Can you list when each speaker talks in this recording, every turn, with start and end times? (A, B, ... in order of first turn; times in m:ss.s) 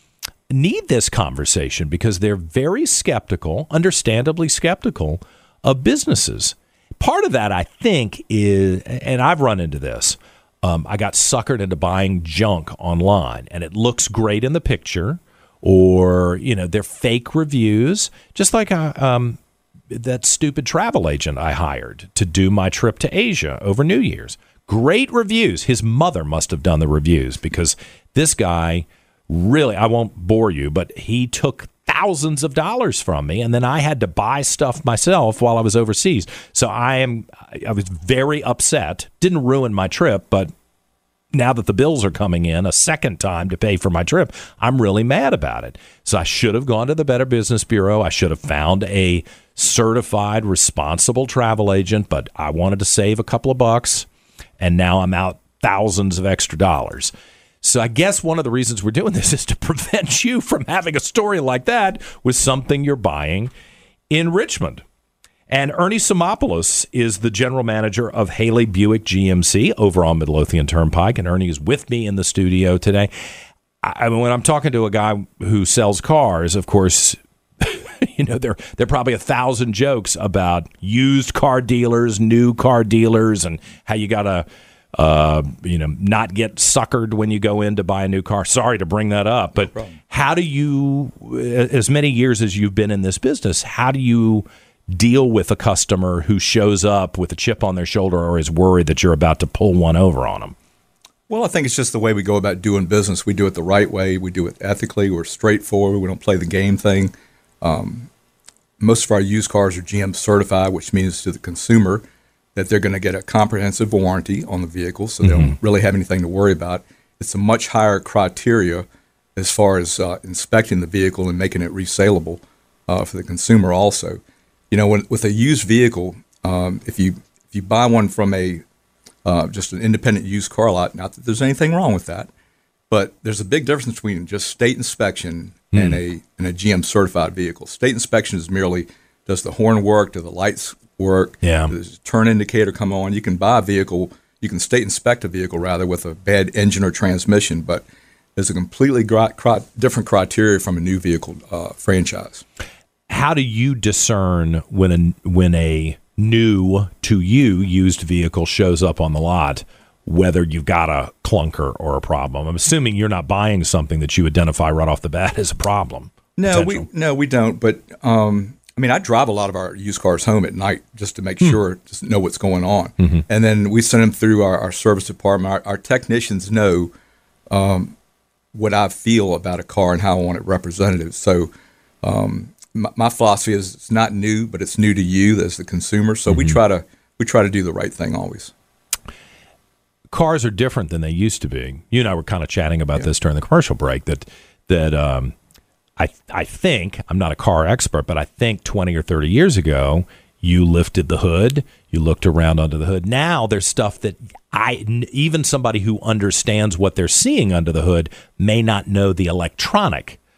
0:00.5-0:19.4 A
0:19.9-0:40.5 A
0:41.3-0:54.1 A
0:54.6-1:03.5 A
1:04.1-1:04.8 A
1:05.5-1:13.1 A
1:13.8-1:40.6 A
1:29.6-1:30.0 B
1:41.3-1:48.1 B
1:48.8-1:52.0 B
1:52.6-2:04.2 B
1:55.2-1:55.6 A
2:04.7-2:08.6 B
2:09.2-2:12.3 B
2:12.9-2:27.8 B
2:15.7-2:16.0 A
2:21.4-2:21.7 A
2:28.4-2:32.4 B
2:33.1-2:46.9 A
2:46.4-2:56.9 B
2:57.5-2:58.0 B
2:58.5-3:01.5 B
3:02.0-3:08.5 B
3:06.3-3:06.6 A
3:10.1-3:15.4 A
3:16.0-3:30.2 A